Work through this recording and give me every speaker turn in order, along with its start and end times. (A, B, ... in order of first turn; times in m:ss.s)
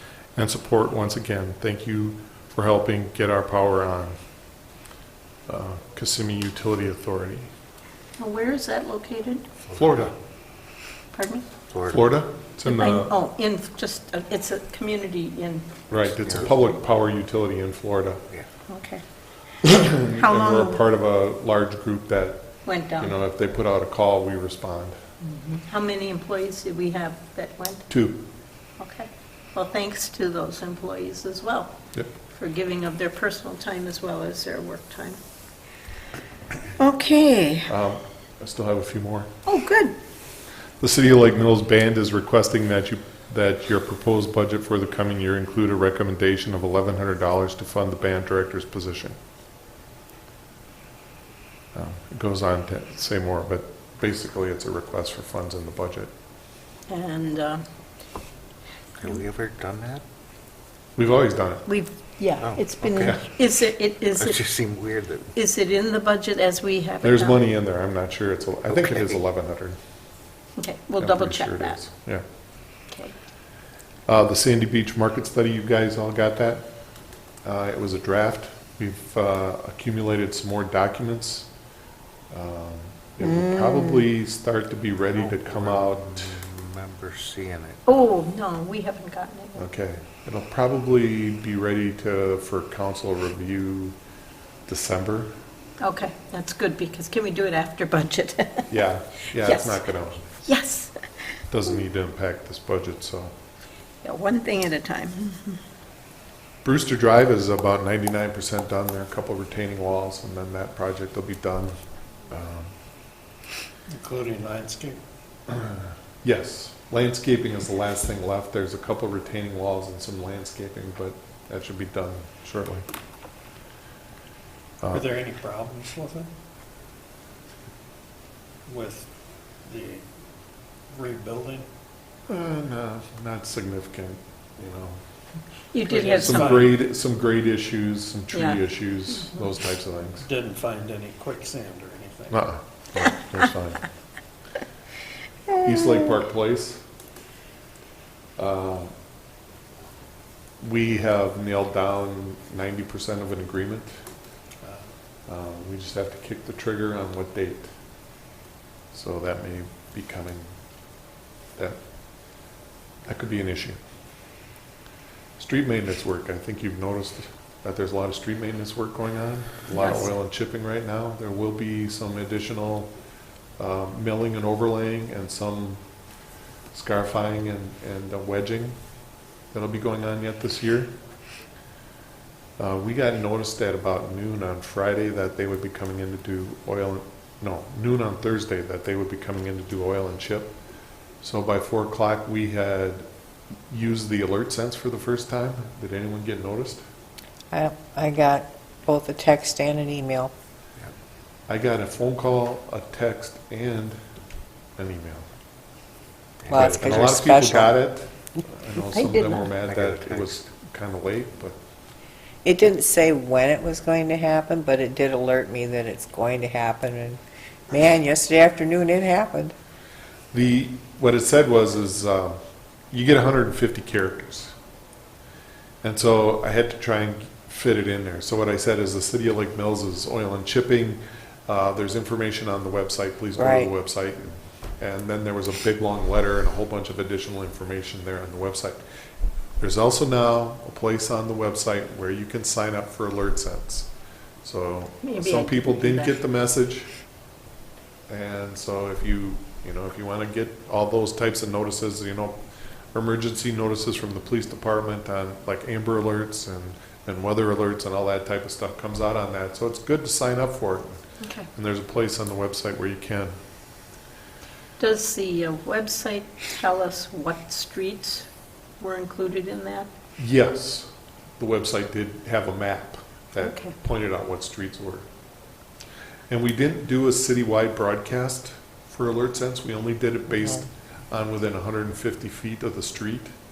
0:00.4-0:04.2 A
0:05.5-0:07.5 A
0:08.2-0:09.4 B
0:09.7-0:10.1 A
0:11.1-0:11.4 B
0:11.7-0:12.0 C
0:11.9-0:13.1 A
0:12.6-0:15.7 B
0:15.9-0:18.2 A
0:18.7-0:19.0 B
0:19.6-0:25.0 A
0:20.2-0:20.8 B
0:22.6-0:23.1 B
0:25.6-0:27.9 B
0:27.9-0:28.2 A
0:28.8-0:31.8 B
0:32.3-0:35.2 B
0:36.8-0:37.7 D
0:37.7-0:39.3 A
0:39.4-0:39.9 B
0:40.8-0:49.2 A
0:51.7-0:56.1 A
0:56.9-0:57.6 B
0:59.0-1:00.0 C
1:01.0-1:01.6 A
1:01.6-1:04.4 B
1:02.4-1:03.2 C
1:04.2-1:05.3 C
1:05.3-1:07.4 B
1:07.0-1:09.8 A
1:08.7-1:09.2 C
1:10.6-1:11.8 B
1:11.0-1:12.2 A
1:12.9-1:13.1 B
1:14.1-1:16.7 A
1:17.4-1:21.5 A
1:22.3-1:26.4 A
1:23.2-1:24.0 D
1:25.1-1:27.8 C
1:27.8-1:29.6 B
1:29.6-1:34.0 A
1:34.7-1:35.3 A
1:35.8-1:38.7 B
1:38.7-1:40.3 A
1:39.4-1:39.8 B
1:40.4-1:41.0 B
1:41.5-1:43.3 A
1:44.0-1:45.6 B
1:46.6-1:51.7 A
1:52.3-1:52.7 A
1:53.9-1:55.0 E
1:55.5-2:02.8 A
2:04.8-2:05.1 A
2:04.9-2:06.3 E
2:08.7-2:09.1 E
2:09.6-2:10.0 E
2:10.9-2:11.7 E
2:12.3-2:15.0 A
2:15.7-2:16.8 B
2:15.8-2:16.8 E
2:16.0-2:20.3 A
2:18.3-2:18.6 B
2:20.2-2:22.4 E
2:22.3-2:23.8 A
2:25.5-2:26.8 A
2:28.4-2:28.9 A
2:30.6-2:33.9 A
2:34.6-2:34.9 E
2:35.3-2:37.7 A
2:38.9-2:40.5 A
2:43.0-2:43.8 A
2:45.4-2:52.9 A
2:49.7-2:50.1 B
2:53.6-2:55.8 A
2:56.7-2:58.8 A
2:59.5-3:00.9 A
3:02.6-3:10.5 A
3:11.2-3:13.1 A
3:13.7-3:16.8 A
3:17.5-3:20.3 D
3:21.5-3:24.0 A
3:24.8-3:25.3 A
3:26.4-3:26.8 C
3:26.5-3:27.7 D
3:26.5-3:31.6 A
3:28.9-3:29.5 B
3:29.7-3:30.3 C
3:32.4-3:39.5 D
3:40.3-3:42.4 A
3:42.9-3:44.5 A
3:45.8-3:58.8 A
3:53.4-3:53.7 D
3:59.6-4:03.9 A
4:04.4-4:06.9 A
4:05.0-4:06.2 B
4:08.1-4:12.4 A
4:12.9-4:23.3 A
4:21.2-4:21.5 B
4:24.8-4:28.3 B
4:28.8-4:29.9 B
4:30.2-4:35.1 A
4:33.4-4:33.7 B
4:36.3-4:43.3 A